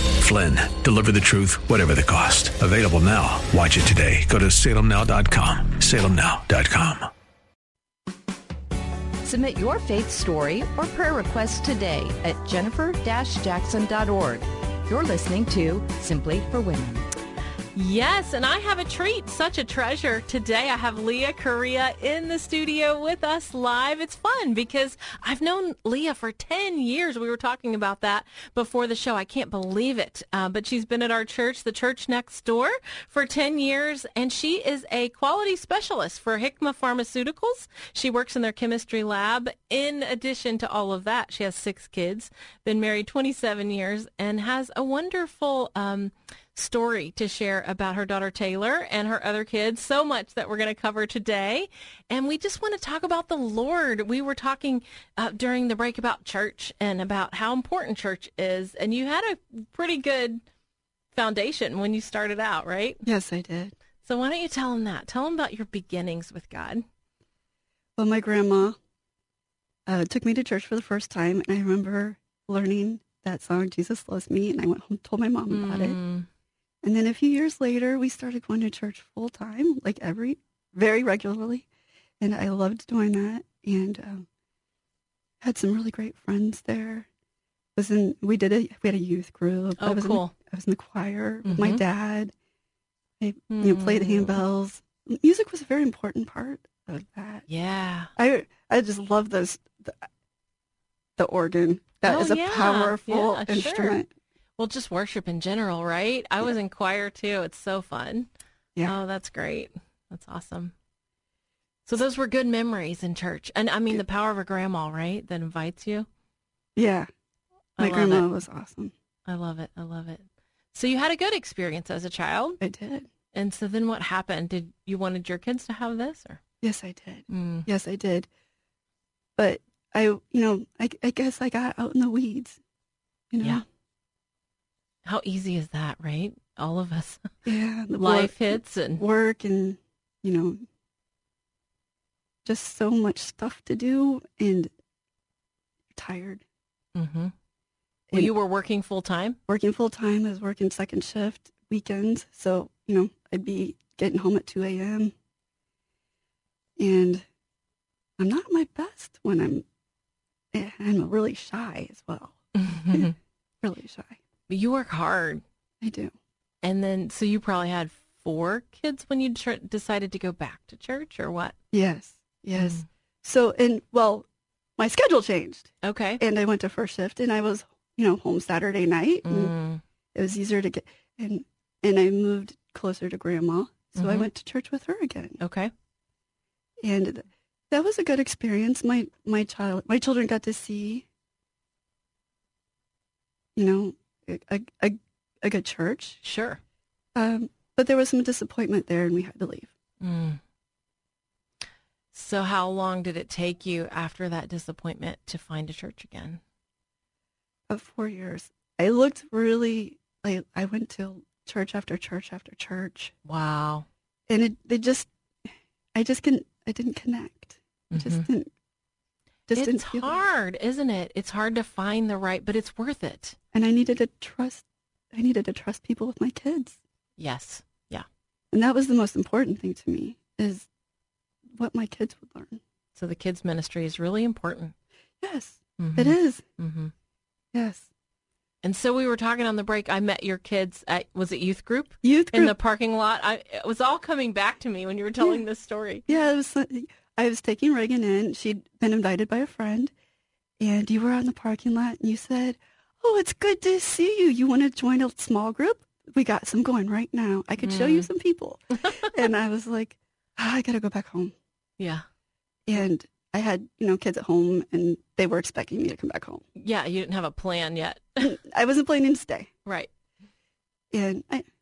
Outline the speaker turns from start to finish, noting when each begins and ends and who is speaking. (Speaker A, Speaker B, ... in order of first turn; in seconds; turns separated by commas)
Speaker A: 0.2-7.1, Speaker B: 9.2-17.1, Speaker C: 17.7-60.4, Speaker C: 61.1-63.0, Speaker D: 63.0-63.7, Speaker C: 64.0-66.8, Speaker D: 68.0-68.8, Speaker D: 69.9-76.0, Speaker C: 75.5-76.3, Speaker D: 76.8-81.7, Speaker D: 82.2-84.2, Speaker D: 85.4-87.1, Speaker D: 87.8-92.3, Speaker C: 89.8-90.3, Speaker C: 91.5-91.8, Speaker D: 93.2-97.5, Speaker C: 93.5-94.4, Speaker C: 97.5-98.1, Speaker D: 98.2-100.0, Speaker D: 101.2-104.1, Speaker C: 102.0-104.0, Speaker C: 104.6-108.3, Speaker C: 108.9-110.7, Speaker C: 111.9-116.1, Speaker D: 116.8-117.1, Speaker C: 117.8-118.3, Speaker D: 117.8-118.9, Speaker C: 119.3-122.6, Speaker D: 122.6-123.1, Speaker C: 123.3-126.4, Speaker D: 126.6-128.3, Speaker C: 127.3-127.7, Speaker D: 129.4-132.6, Speaker D: 133.3-133.6, Speaker C: 135.1-137.3, Speaker D: 137.4-140.6, Speaker C: 138.0-139.0, Speaker D: 142.4-144.7, Speaker D: 145.9-146.4, Speaker C: 146.9-147.3, Speaker C: 148.1-149.4, Speaker D: 149.5-155.1, Speaker D: 156.8-157.2, Speaker D: 158.2-159.7, Speaker D: 160.5-162.4, Speaker C: 162.6-163.1, Speaker D: 163.6-164.2, Speaker C: 164.5-165.4, Speaker D: 165.8-166.1, Speaker C: 166.6-171.6, Speaker D: 171.7-174.3, Speaker C: 172.6-172.8, Speaker D: 174.8-179.6, Speaker C: 175.8-176.2, Speaker C: 179.2-179.8, Speaker D: 180.2-185.4, Speaker C: 184.0-184.3, Speaker C: 185.4-185.7, Speaker D: 186.8-191.1, Speaker D: 193.6-196.2, Speaker C: 196.2-196.6, Speaker D: 197.2-199.7, Speaker C: 200.0-200.4, Speaker C: 202.1-206.4, Speaker D: 207.7-213.1, Speaker C: 213.2-213.9, Speaker D: 214.3-215.1, Speaker D: 215.9-218.5, Speaker C: 217.9-218.3, Speaker D: 219.5-220.2, Speaker C: 219.6-223.4, Speaker D: 223.5-226.8, Speaker C: 227.2-228.1, Speaker D: 228.5-230.7, Speaker D: 231.6-232.6, Speaker C: 232.9-234.7, Speaker D: 235.2-236.4, Speaker C: 235.8-236.9, Speaker D: 237.5-237.9, Speaker C: 238.6-246.1, Speaker D: 242.0-242.6, Speaker D: 245.2-245.4, Speaker D: 246.1-249.9, Speaker D: 250.6-261.3, Speaker C: 257.6-258.1, Speaker C: 261.8-262.1, Speaker D: 262.7-266.4, Speaker C: 266.6-268.3, Speaker D: 268.2-269.5, Speaker D: 270.9-271.5